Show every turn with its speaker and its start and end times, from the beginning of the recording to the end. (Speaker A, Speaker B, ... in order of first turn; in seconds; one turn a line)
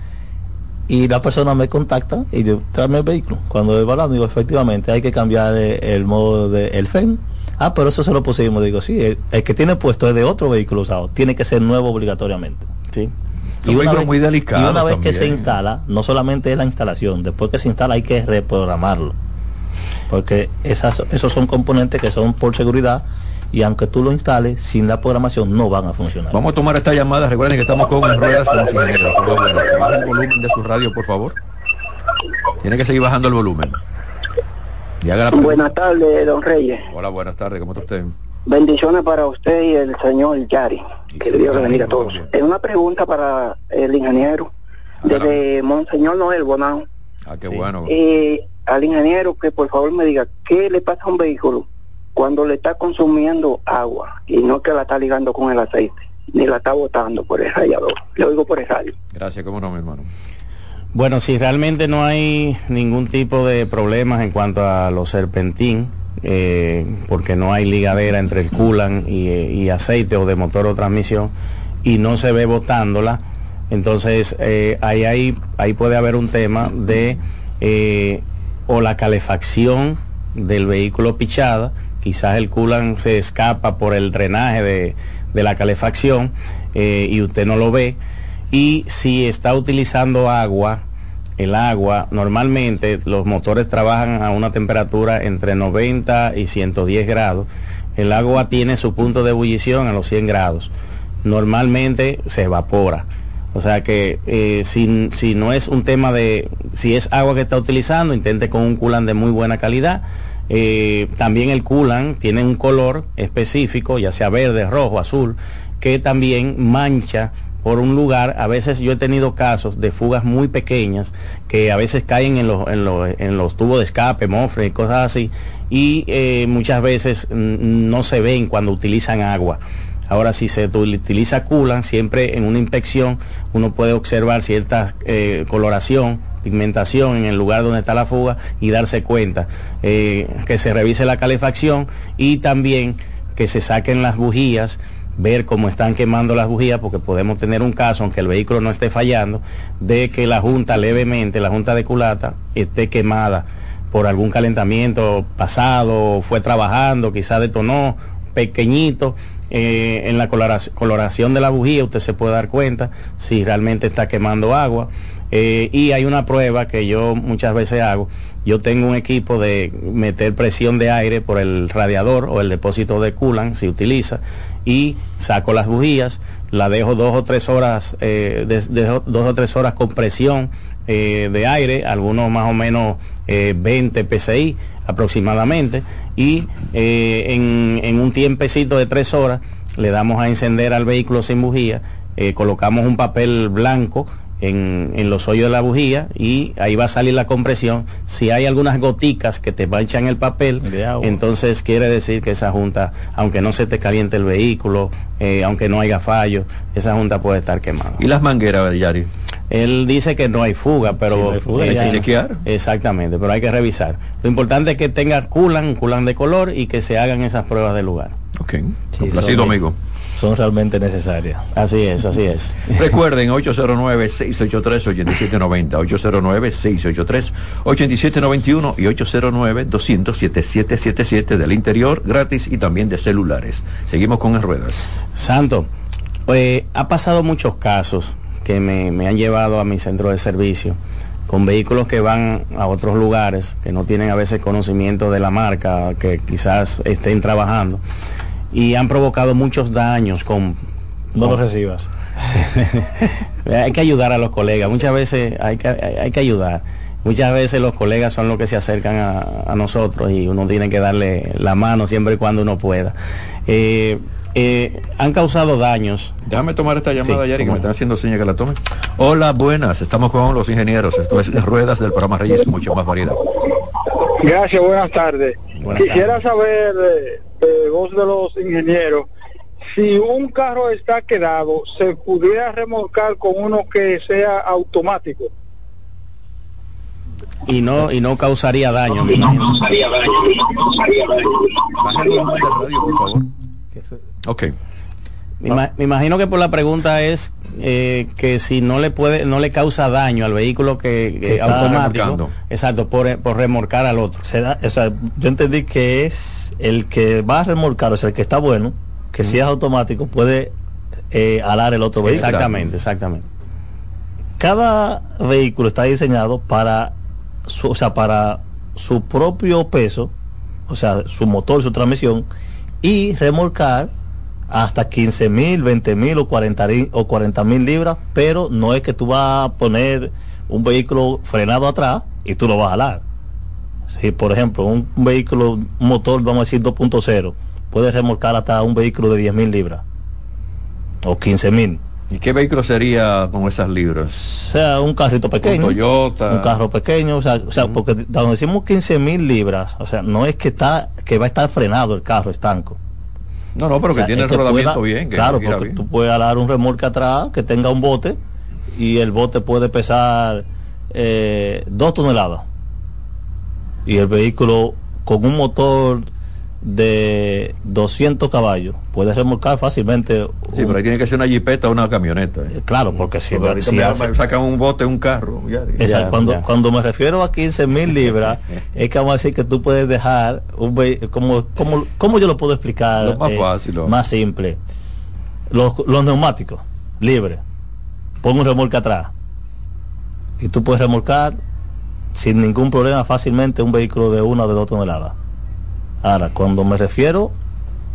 Speaker A: 0.9-12.7
Speaker B: 13.6-15.4
Speaker A: 13.6-19.1
Speaker A: 20.1-26.4
Speaker B: 26.3-31.3
Speaker B: 32.6-33.8
Speaker B: 35.0-35.8
Speaker C: 35.3-36.8
Speaker B: 36.9-38.1
Speaker C: 38.5-44.5
Speaker B: 41.1-42.3
Speaker B: 45.0-45.4
Speaker C: 45.1-46.8
Speaker B: 47.3-47.9
Speaker C: 47.9-51.6
Speaker C: 52.2-58.9
Speaker B: 59.1-60.1
Speaker D: 60.9-71.3
Speaker D: 71.8-88.0
Speaker D: 88.5-90.8
Speaker D: 91.4-100.7
Speaker D: 101.2-208.0
Speaker A: 200.6-201.2
Speaker B: 208.0-209.1
Speaker D: 209.5-218.1
Speaker A: 211.1-212.0
Speaker B: 211.6-212.4
Speaker B: 218.4-219.8
Speaker A: 218.9-219.6
Speaker A: 220.2-221.4
Speaker D: 221.5-222.8
Speaker B: 222.7-235.0
Speaker D: 235.2-235.7
Speaker D: 236.3-247.8
Speaker D: 248.5-250.6
Speaker A: 251.1-251.9
Speaker D: 252.6-252.8
Speaker D: 253.4-262.9
Speaker D: 263.5-266.1
Speaker B: 266.2-273.2
Speaker D: 267.0-267.6
Speaker E: 274.2-279.1
Speaker D: 275.6-276.2
Speaker E: 279.7-285.3
Speaker D: 287.5-289.7
Speaker B: 291.8-293.3
Speaker B: 294.2-294.5
Speaker D: 295.4-304.2
Speaker A: 301.2-301.8
Speaker B: 301.4-302.3
Speaker A: 304.2-310.5
Speaker A: 311.1-312.4
Speaker B: 312.0-312.8
Speaker D: 312.0-313.3
Speaker A: 314.4-316.9
Speaker A: 317.4-320.1
Speaker A: 320.7-322.3
Speaker A: 322.8-323.9
Speaker A: 324.5-333.0
Speaker A: 333.9-339.8
Speaker A: 341.0-341.8
Speaker B: 342.1-344.1
Speaker A: 344.1-352.8
Speaker B: 345.4-346.6
Speaker B: 353.6-355.8
Speaker A: 353.9-358.2
Speaker A: 358.7-362.4
Speaker A: 363.9-366.1
Speaker A: 366.6-370.8
Speaker B: 370.5-372.5
Speaker A: 372.5-374.1
Speaker B: 373.3-375.8
Speaker A: 375.8-384.6
Speaker D: 375.8-376.4
Speaker B: 383.0-384.0
Speaker A: 385.5-387.4
Speaker A: 388.2-389.1
Speaker A: 390.4-391.4
Speaker A: 392.1-395.1
Speaker A: 396.0-397.3